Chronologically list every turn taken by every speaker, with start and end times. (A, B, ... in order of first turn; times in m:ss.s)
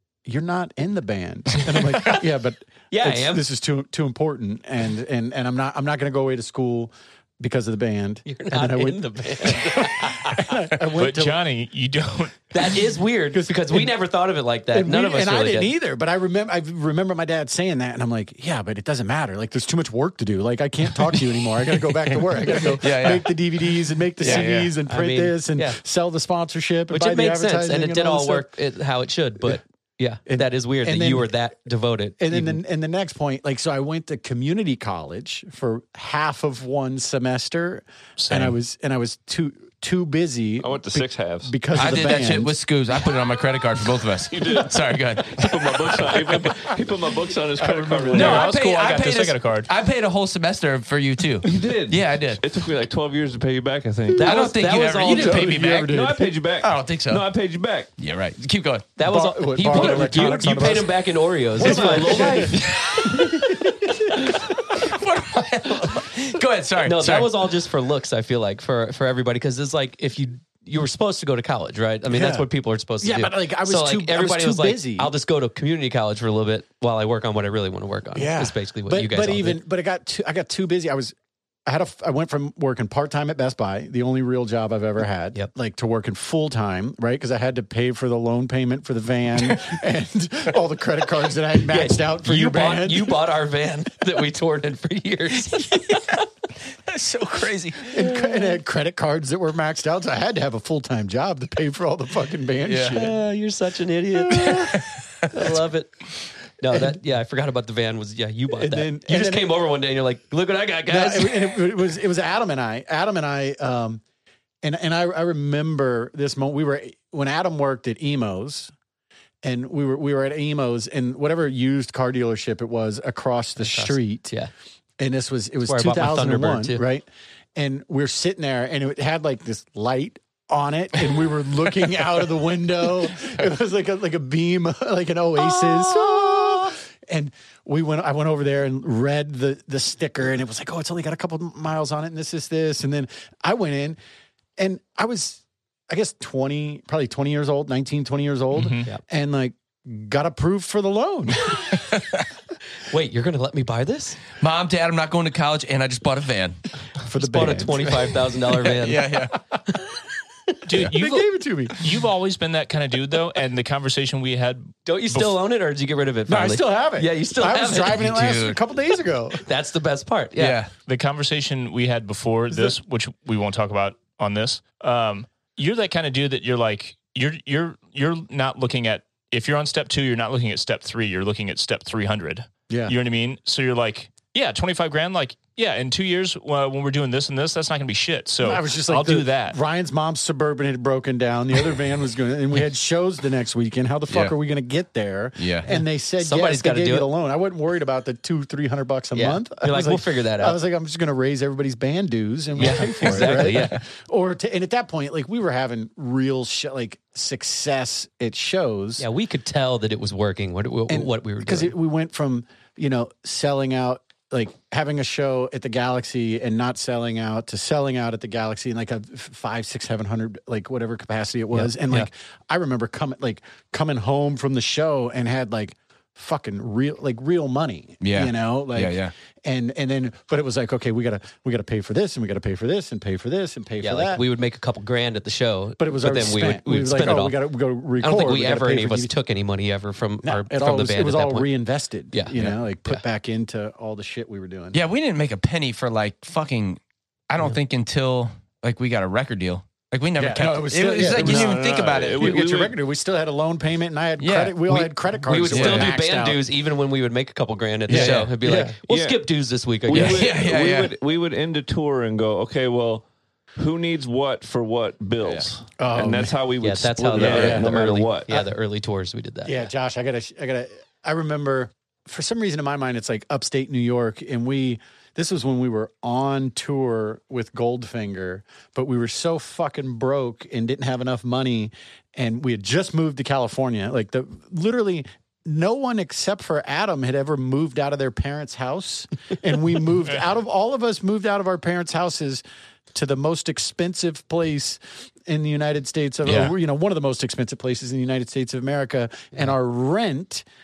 0:00.2-0:11.4 A
0:02.9-0:03.4 B
0:08.2-0:10.5 B
0:10.9-0:12.7 C
0:12.5-0:15.7 B
0:13.3-0:13.9 A
0:14.7-0:28.5 A
0:21.0-0:23.3 D
0:24.2-0:24.7 D
0:24.2-0:25.8 B
0:26.9-0:32.6 B
0:30.2-0:31.3 A
0:32.2-0:42.5 A
0:38.2-0:38.6 C
0:40.6-0:41.5 E
0:41.7-0:46.6 D
0:44.3-0:48.5 E
0:47.6-0:48.5 A
0:48.1-0:52.4 D
0:48.2-0:49.7 C
0:51.4-0:54.4 E
0:54.2-0:55.5 B
0:54.2-0:56.0 D
0:55.0-0:56.3 A
0:55.5-0:57.9 E
0:56.6-0:57.2 D
0:58.0-0:59.0 D
0:59.0-1:02.5 B
0:59.0-1:01.0 A
0:59.6-1:00.8 D
1:01.6-1:04.4 A
1:01.6-1:02.6 E
1:01.6-1:03.6 D
1:04.7-1:07.4 D
1:06.8-1:19.6 B
1:12.1-1:12.4 A
1:13.0-1:15.1 A
1:18.1-1:21.1 A
1:21.6-1:33.2 A
1:31.7-1:36.1 B
1:35.6-1:37.9 D
1:37.9-1:43.2 A
1:38.0-1:38.4 B
1:42.6-1:43.0 D
1:42.9-1:51.6 B
1:44.2-1:44.8 A
1:44.3-1:45.5 D
1:48.5-1:49.6 A
1:50.9-1:54.0 A
1:54.6-1:58.7 A
1:59.4-2:04.3 A
2:03.6-2:04.5 B
2:05.0-2:24.0 A
2:05.7-2:06.8 B
2:15.4-2:16.7 B
2:24.6-2:31.5 A
2:28.5-2:28.9 C
2:32.9-2:34.2 B
2:34.4-2:36.6 D
2:37.0-2:37.9 A
2:37.2-2:39.1 B
2:37.8-2:39.4 D
2:40.6-2:45.4 C
2:40.8-2:41.8 A
2:44.8-2:48.0 B
2:46.3-2:49.4 A
2:47.8-2:48.6 D
2:49.4-2:50.6 B
2:50.4-2:50.7 D
2:50.8-3:09.6 C
3:02.7-3:03.0 A
3:08.4-3:29.0 A
3:15.4-3:15.6 D
3:15.7-3:17.1 B
3:19.1-3:20.6 B
3:22.6-3:23.8 B
3:23.0-3:23.8 D
3:29.0-3:31.7 B
3:30.9-3:54.2 A
3:41.5-3:42.1 B
3:48.0-3:49.1 D
3:53.8-3:57.4 B
3:55.8-3:59.1 A
3:58.0-4:01.5 B
4:00.2-4:04.8 A
4:02.1-4:03.0 B
4:04.7-4:12.3 D
4:10.2-4:16.4 A
4:11.2-4:12.7 E
4:14.2-4:14.9 D
4:15.2-4:20.3 B
4:15.5-4:15.9 D
4:17.9-4:18.8 A
4:17.9-4:18.4 D
4:18.9-4:19.2 E
4:19.8-4:28.3 E
4:19.9-4:20.9 D
4:25.8-4:26.4 A
4:26.6-4:29.7 B
4:27.1-4:28.5 A
4:29.4-5:00.4 A
4:56.2-4:56.5 D